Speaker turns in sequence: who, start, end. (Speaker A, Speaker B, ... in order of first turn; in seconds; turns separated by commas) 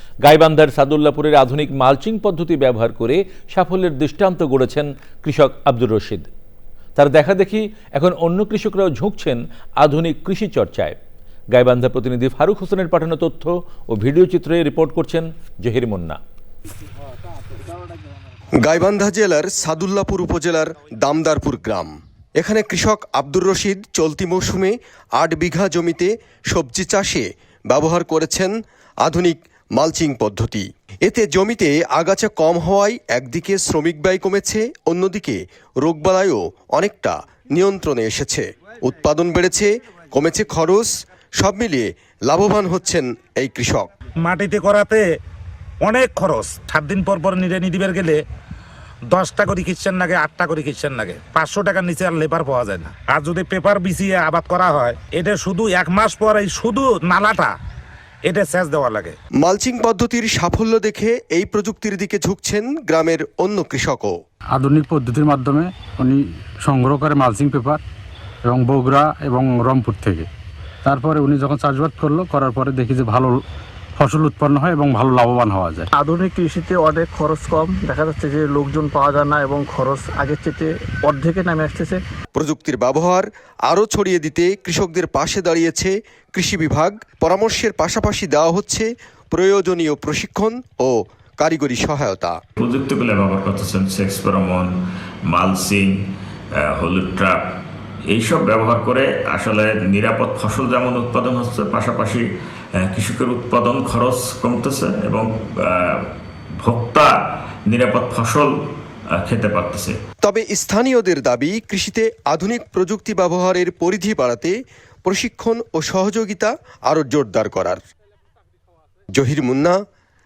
Speaker A: 0.2-6.3, Speaker A: 7.0-11.0, Speaker A: 11.6-16.2, Speaker B: 18.6-43.9, Speaker C: 44.2-45.1, Speaker C: 45.8-48.2, Speaker C: 49.1-57.5, Speaker C: 58.2-59.1, Speaker B: 59.4-64.2, Speaker D: 64.5-67.8, Speaker D: 68.5-70.3, Speaker D: 70.8-73.4, Speaker D: 74.0-75.9, Speaker E: 76.0-82.0, Speaker B: 82.4-92.4, Speaker F: 92.6-94.7, Speaker F: 95.3-95.9, Speaker F: 96.6-97.4, Speaker F: 98.1-102.2, Speaker F: 102.8-106.0, Speaker F: 106.6-107.1, Speaker F: 107.7-108.5, Speaker F: 109.1-109.9, Speaker B: 110.2-114.5, Speaker B: 115.1-117.8, Speaker B: 119.2-119.8